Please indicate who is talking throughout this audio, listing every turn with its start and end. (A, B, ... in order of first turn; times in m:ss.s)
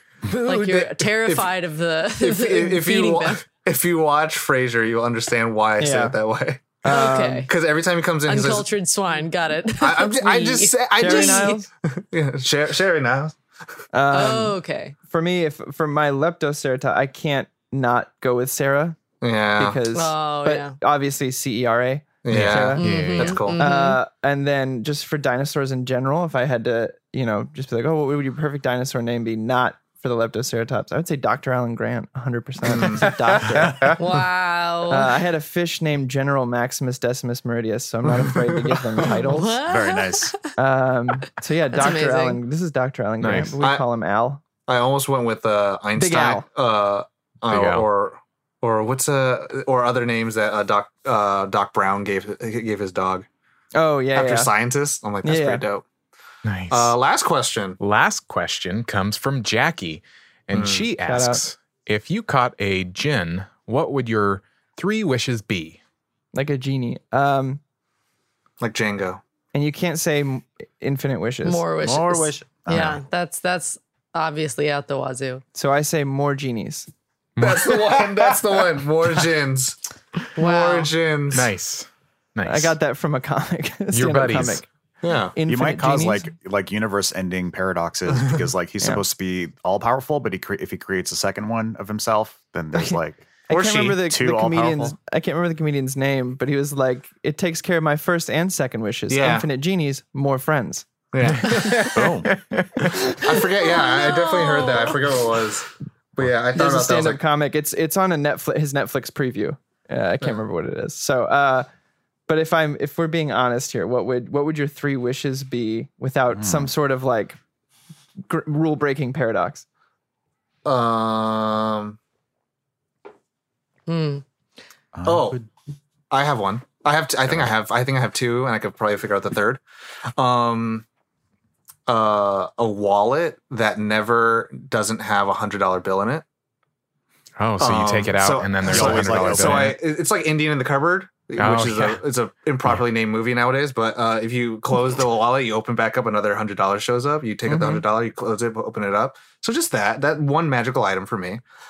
0:00.3-0:03.4 A
0:00.3-0:01.5 B
0:02.2-0:08.7 B
0:05.8-0:06.2 C
0:06.8-0:07.5 C
0:06.9-0:07.5 A
0:08.3-0:11.6 A
0:09.8-0:13.4 B
0:11.0-0:11.7 C
0:13.9-0:19.0 C
0:14.1-0:15.0 A
0:19.2-0:19.8 B
0:19.6-0:23.0 C
0:19.9-0:20.8 A
0:22.2-0:23.6 B
0:22.3-0:23.5 D
0:22.8-0:24.0 A
0:23.6-0:34.0 C
0:32.6-0:33.1 B
0:34.0-0:35.1 A
0:34.9-0:39.6 C
0:38.1-0:39.1 B
0:39.1-0:40.4 A
0:39.7-0:40.4 E
0:40.6-0:44.4 C
0:41.7-0:42.4 A
0:43.2-0:43.6 D
0:43.6-0:43.9 B
0:44.7-0:53.3 B
0:46.0-0:46.5 C
0:47.5-0:47.9 D
0:53.8-0:54.5 C
0:54.1-0:55.8 B
0:55.2-0:55.6 C
0:56.4-0:57.0 D
0:56.7-0:57.8 B
0:57.8-1:05.8 D
1:00.5-1:00.9 B
1:01.0-1:01.4 C
1:06.3-1:07.6 C
1:08.6-1:09.2 B
1:09.5-1:11.6 C
1:11.4-1:15.4 A
1:11.8-1:13.0 E
1:15.6-1:16.9 C
1:17.4-1:18.1 D
1:17.4-1:19.8 B
1:20.4-1:21.5 B
1:20.4-1:20.9 A
1:21.3-1:22.8 D
1:22.5-1:24.7 C
1:23.9-1:24.6 D
1:25.0-1:25.4 B
1:25.4-1:26.3 C
1:25.5-1:35.0 E
1:33.5-1:40.9 C
1:33.5-1:34.0 B
1:39.1-1:39.5 B
1:41.1-1:41.9 B
1:41.2-1:43.2 D
1:42.0-1:42.4 E
1:43.0-1:47.2 B
1:43.6-1:45.0 A
1:46.5-1:51.7 C
1:52.3-1:57.4 C
1:56.3-1:56.7 E
1:58.2-1:59.6 C
2:00.6-2:02.0 B
2:03.9-2:04.2 A
2:05.0-2:05.5 E
2:05.0-2:05.4 B
2:06.1-2:09.6 B
2:10.2-2:10.8 B
2:11.9-2:16.2 B
2:17.4-2:19.8 D
2:17.6-2:31.4 B
2:18.7-2:19.7 E
2:21.4-2:22.0 D
2:27.5-2:27.8 C